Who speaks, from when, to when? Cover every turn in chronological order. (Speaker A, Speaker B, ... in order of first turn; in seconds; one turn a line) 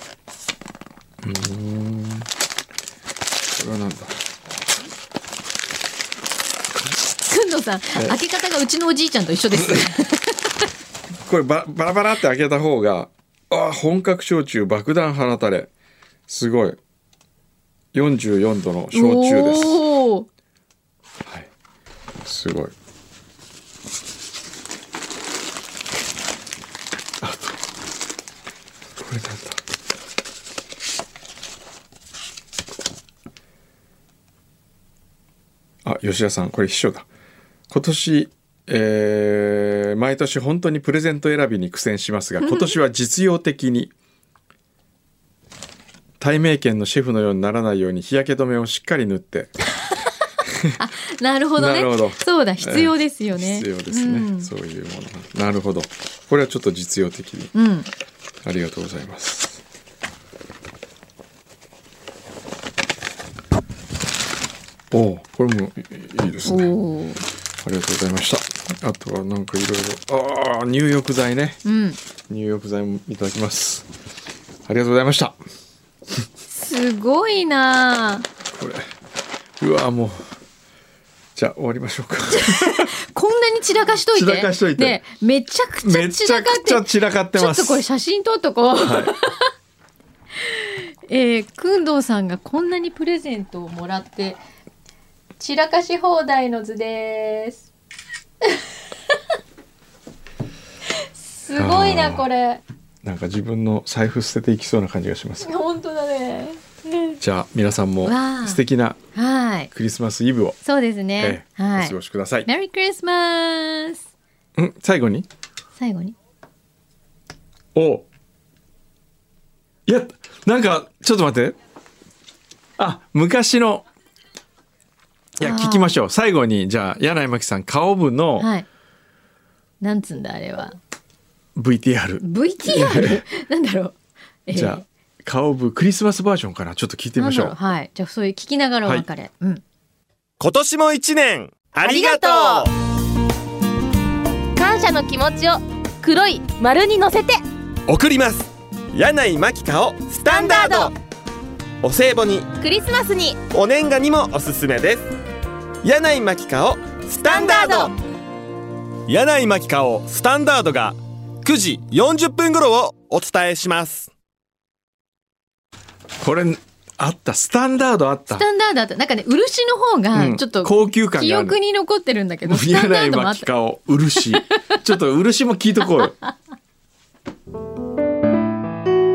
Speaker A: 1.2-2.3
Speaker A: 3.5-4.2
Speaker B: 6.9-10.7
Speaker A: 9.5-9.9
Speaker A: 11.1-15.7
Speaker A: 16.3-16.8
Speaker A: 17.9-19.8
Speaker B: 18.9-20.3
Speaker A: 21.2-21.5
Speaker A: 22.2-22.7
Speaker A: 27.2-27.6
Speaker A: 29.0-29.6
Speaker A: 35.8-37.1
Speaker A: 37.7-43.9
Speaker B: 42.4-42.7
Speaker A: 46.2-49.6
Speaker A: 50.5-50.8
Speaker B: 50.8-54.5
Speaker A: 51.6-57.5
Speaker B: 57.5-57.9
Speaker A: 58.4-59.6
Speaker A: 64.9-66.8
Speaker B: 66.5-67.2
Speaker A: 67.6-71.6
Speaker B: 71.7-72.0
Speaker A: 72.3-73.9
Speaker A: 74.7-75.4
Speaker B: 76.5-78.3
Speaker A: 78.5-78.9
Speaker A: 79.6-80.2
Speaker A: 81.3-82.9
Speaker B: 82.3-89.5
Speaker A: 84.1-85.0
Speaker A: 85.8-87.8
Speaker A: 88.8-89.2
Speaker B: 90.4-94.4
Speaker B: 95.4-97.7
Speaker B: 101.2-102.6
Speaker A: 101.5-102.3
Speaker A: 103.0-105.5
Speaker B: 105.4-107.2
Speaker A: 107.2-109.0
Speaker B: 108.0-108.6
Speaker B: 109.2-109.7
Speaker A: 109.7-110.6
Speaker B: 110.6-114.0
Speaker A: 111.2-112.5
Speaker A: 114.6-115.3
Speaker B: 115.8-116.2
Speaker A: 117.8-118.1
Speaker A: 119.9-121.6
Speaker A: 122.8-123.8
Speaker A: 125.4-128.5
Speaker B: 125.4-125.9
Speaker B: 128.4-128.7
Speaker B: 129.8-130.8
Speaker A: 131.6-133.2
Speaker B: 132.2-134.8
Speaker A: 134.5-137.6
Speaker B: 137.2-139.6
Speaker C: 140.4-142.7
Speaker D: 141.8-142.7
Speaker D: 144.6-147.4
Speaker C: 147.9-150.9
Speaker D: 150.2-150.9
Speaker C: 151.8-152.5
Speaker D: 152.6-153.4
Speaker C: 153.5-155.1
Speaker C: 155.8-157.9
Speaker D: 157.2-157.9
Speaker C: 159.1-164.1
Speaker A: 166.2-168.5
Speaker B: 168.3-173.5
Speaker A: 170.1-171.6
Speaker A: 172.4-176.2